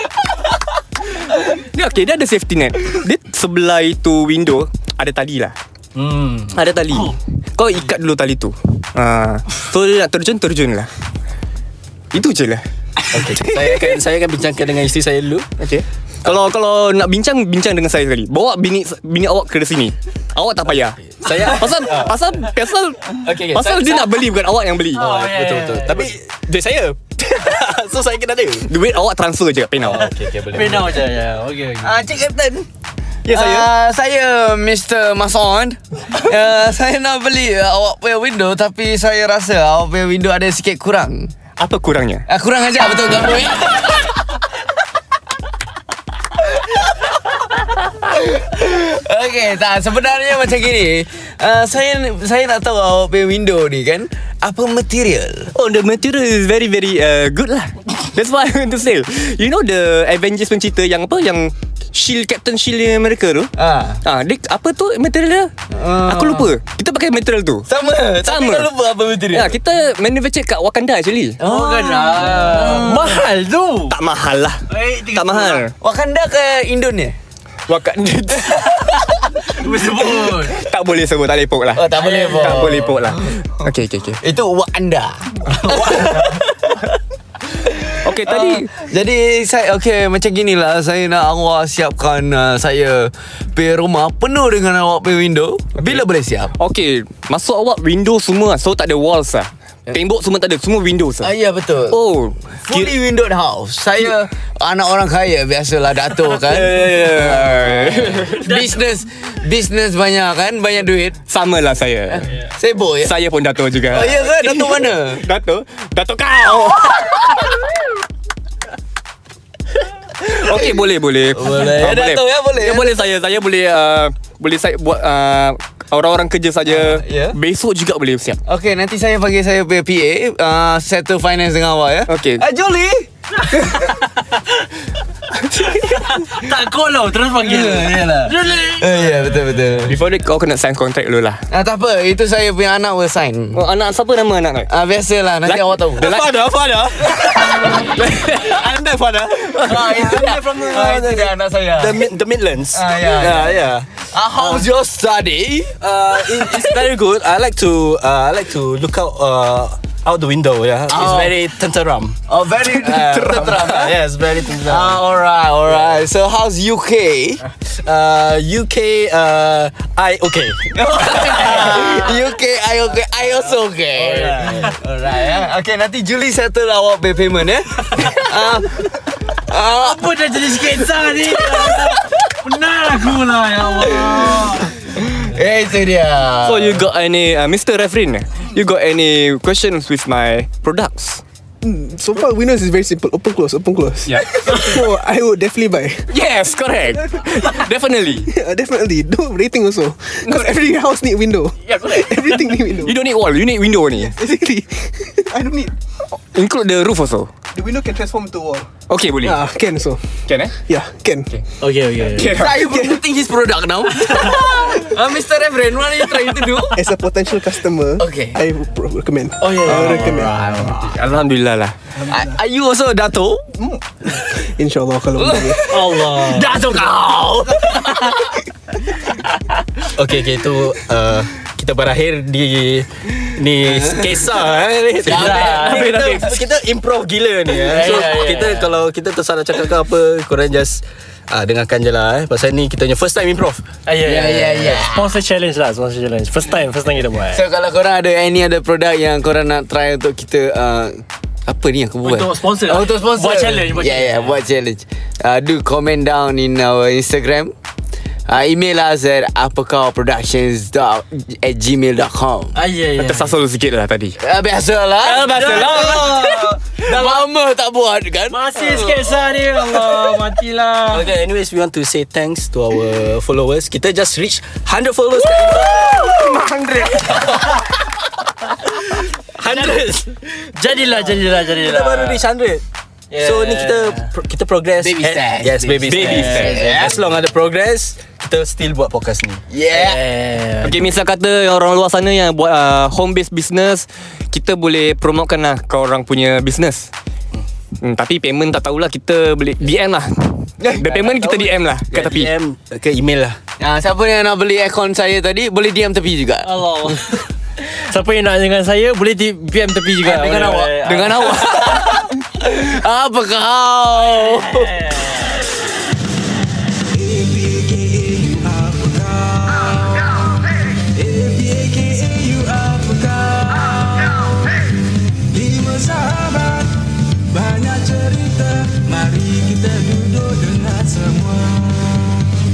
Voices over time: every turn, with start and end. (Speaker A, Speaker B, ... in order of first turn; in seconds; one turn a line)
Speaker A: 1.4-5.5
Speaker B: 5.9-6.6
Speaker A: 6.5-10.9
Speaker A: 12.1-12.6
Speaker B: 13.1-15.5
Speaker A: 15.6-25.1
Speaker B: 21.1-22.2
Speaker B: 23.2-24.1
Speaker C: 24.9-26.1
Speaker B: 24.9-28.7
Speaker A: 28.7-30.1
Speaker B: 29.8-30.9
Speaker C: 30.5-32.0
Speaker D: 31.8-32.7
Speaker A: 33.2-33.7
Speaker D: 33.3-41.3
Speaker A: 41.6-42.2
Speaker D: 42.3-44.3
Speaker D: 46.4-46.8
Speaker D: 47.9-55.5
Speaker A: 55.5-63.5
Speaker D: 63.6-64.0
Speaker A: 64.0-65.5
Speaker D: 65.7-66.5
Speaker A: 66.0-67.7
Speaker D: 67.7-69.5
Speaker A: 68.2-68.7
Speaker A: 69.3-71.4
Speaker C: 71.4-74.0
Speaker D: 71.4-73.2
Speaker A: 73.9-75.7
Speaker C: 74.7-75.6
Speaker D: 75.8-77.2
Speaker A: 77.7-79.3
Speaker C: 79.5-80.6
Speaker A: 80.1-84.2
Speaker D: 81.7-83.6
Speaker C: 82.0-82.8
Speaker D: 84.2-86.8
Speaker A: 85.5-86.4
Speaker D: 87.6-96.5
Speaker A: 88.0-88.7
Speaker A: 95.8-96.0
Speaker A: 96.5-101.3
Speaker D: 101.2-102.0
Speaker A: 101.9-103.0
Speaker D: 102.7-111.2
Speaker A: 106.3-108.5
Speaker A: 111.3-112.3
Speaker D: 112.1-113.1
Speaker A: 113.0-117.6
Speaker D: 113.9-115.2
Speaker A: 120.2-128.4
Speaker D: 120.2-120.8
Speaker D: 121.3-123.0
Speaker D: 126.7-127.4
Speaker D: 128.4-133.9
Speaker A: 132.1-132.4
Speaker C: 135.6-139.3
Speaker D: 137.4-140.0
Speaker A: 139.8-141.4
Speaker D: 141.5-143.6
Speaker A: 143.5-144.7
Speaker D: 144.7-146.1
Speaker A: 145.4-146.3
Speaker B: 146.0-147.9
Speaker D: 147.2-152.0
Speaker A: 147.9-148.5
Speaker B: 148.5-153.9
Speaker D: 152.7-156.8
Speaker B: 154.4-154.6
Speaker B: 155.8-162.2
Speaker D: 160.9-161.4
Speaker D: 162.3-163.9
Speaker A: 162.7-163.6
Speaker B: 162.8-165.0
Speaker D: 164.6-167.5
Speaker B: 167.7-171.9
Speaker D: 170.7-182.0
Speaker C: 174.0-174.7
Speaker C: 179.7-184.7
Speaker D: 183.8-186.8
Speaker A: 186.4-191.2
Speaker E: 191.6-196.1
Speaker A: 194.1-194.8
Speaker A: 196.1-198.3
Speaker E: 198.2-202.9
Speaker A: 200.3-200.5
Speaker A: 201.9-204.1
Speaker E: 204.0-205.7
Speaker A: 206.3-207.3
Speaker E: 207.5-208.7
Speaker A: 208.9-209.4
Speaker E: 209.2-210.0
Speaker A: 210.3-210.5
Speaker E: 210.7-211.3
Speaker C: 211.6-212.3
Speaker A: 212.1-212.6
Speaker D: 212.2-216.8
Speaker E: 212.5-213.0
Speaker E: 216.7-220.7
Speaker D: 218.0-218.4
Speaker C: 219.4-220.7
Speaker D: 219.7-220.9
Speaker A: 220.7-221.7
Speaker E: 221.9-222.4
Speaker D: 222.1-223.5
Speaker E: 223.6-226.0
Speaker D: 225.2-228.4
Speaker C: 225.7-226.7
Speaker B: 229.9-243.6
Speaker D: 233.7-234.1
Speaker D: 235.0-236.4
Speaker C: 235.1-236.3
Speaker C: 237.6-238.7
Speaker C: 243.8-247.4
Speaker D: 244.0-245.2
Speaker D: 247.3-257.5
Speaker C: 252.0-254.4
Speaker D: 258.3-262.6
Speaker C: 262.5-263.3
Speaker A: 263.0-264.2
Speaker D: 264.2-269.0
Speaker C: 265.0-267.2
Speaker A: 265.3-266.1
Speaker B: 265.5-266.4
Speaker C: 268.3-271.1
Speaker D: 269.8-270.1
Speaker B: 270.9-277.7
Speaker A: 275.6-277.6
Speaker B: 278.6-280.5
Speaker C: 280.5-282.2
Speaker B: 281.3-282.6
Speaker C: 283.1-284.1
Speaker B: 283.1-289.4
Speaker D: 284.8-287.1
Speaker C: 285.9-286.6
Speaker A: 286.1-286.5
Speaker D: 289.5-290.0
Speaker C: 289.7-290.8
Speaker A: 290.6-296.9
Speaker A: 297.8-302.3
Speaker B: 300.6-303.4
Speaker D: 303.6-306.9
Speaker C: 306.4-311.5
Speaker B: 310.1-310.7
Speaker A: 310.8-312.1
Speaker D: 311.3-314.9
Speaker C: 314.1-315.4
Speaker B: 316.9-332.3